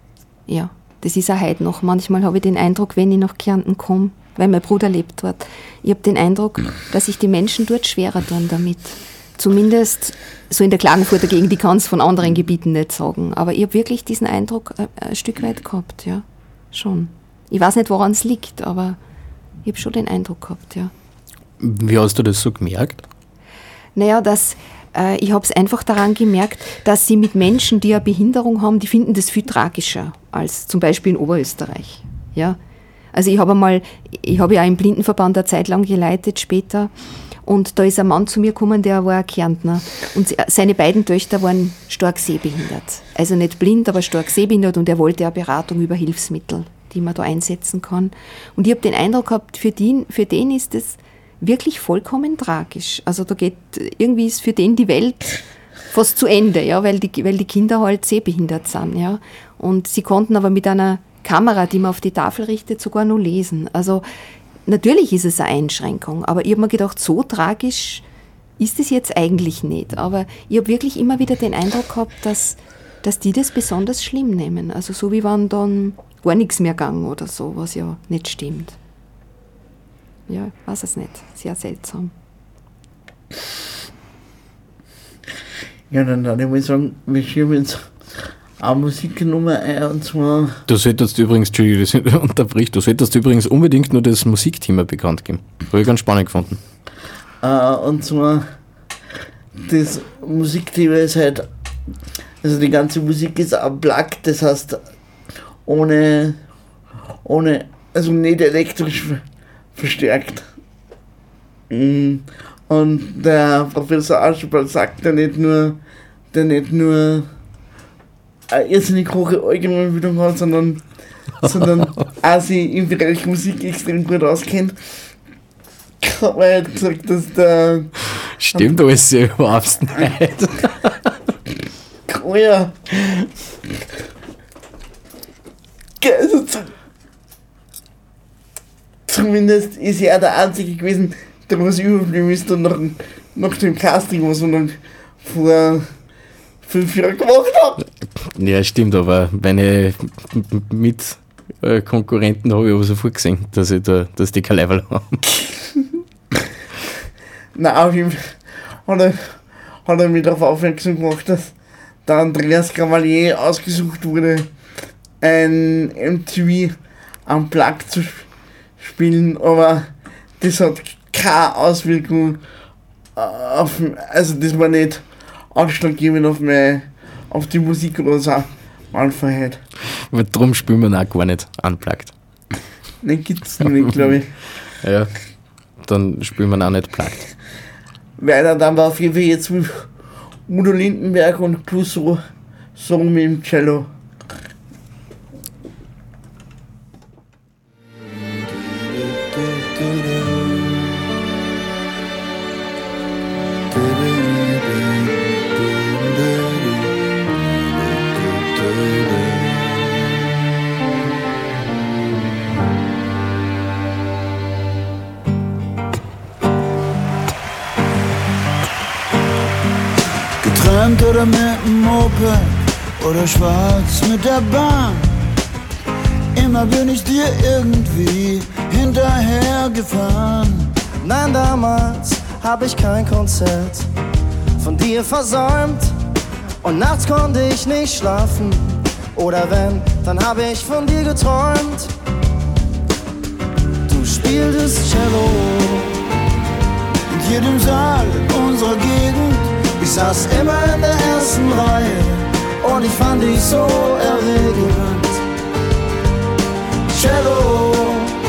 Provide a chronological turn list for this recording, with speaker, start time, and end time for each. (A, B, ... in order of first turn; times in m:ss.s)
0:00.5-0:19.0 A
0:19.6-0:20.9 A
0:21.6-0:23.0 B
0:24.0-0:32.6 A
0:33.1-0:36.9 A
0:37.4-1:04.0 A
1:04.6-1:08.0 A
1:08.6-1:18.8 A
1:20.3-1:22.1 A
1:25.9-1:30.6 C
1:30.7-1:36.6 B
1:37.4-1:38.5 C
1:39.6-1:41.5 C
1:42.4-1:44.8 C
1:45.6-1:46.4 C
1:47.2-1:49.2 C
1:49.7-1:50.5 C
1:51.7-1:55.8 C
1:56.3-1:57.3 C
1:58.5-2:04.8 C
2:06.0-2:07.9 C
2:08.4-2:10.9 B
2:12.1-2:13.3 C
2:16.0-2:16.7 C
2:19.1-2:25.9 C
2:26.6-2:27.8 C
2:28.3-2:35.2 B
2:37.5-2:41.5 C
2:42.0-2:44.5 C
2:45.2-2:52.4 C
2:53.2-2:59.6 C
3:00.0-3:02.1 B
3:03.0-3:04.3 C
3:04.8-3:05.1 B
3:05.8-3:07.3 B
3:08.2-3:09.9 C
3:10.5-3:12.2 C
3:12.8-3:13.9 C
3:18.4-3:21.0 D
3:23.7-3:26.9 D
3:27.7-3:30.2 D
3:40.4-3:45.2 D
3:46.3-3:50.7 D
3:51.0-3:53.9 E
3:54.6-3:55.9 E
3:56.6-4:01.9 E
4:03.9-4:06.0 E
4:07.1-4:09.7 D
4:09.8-4:12.0 E
4:12.6-4:15.2 E
4:16.9-4:18.0 E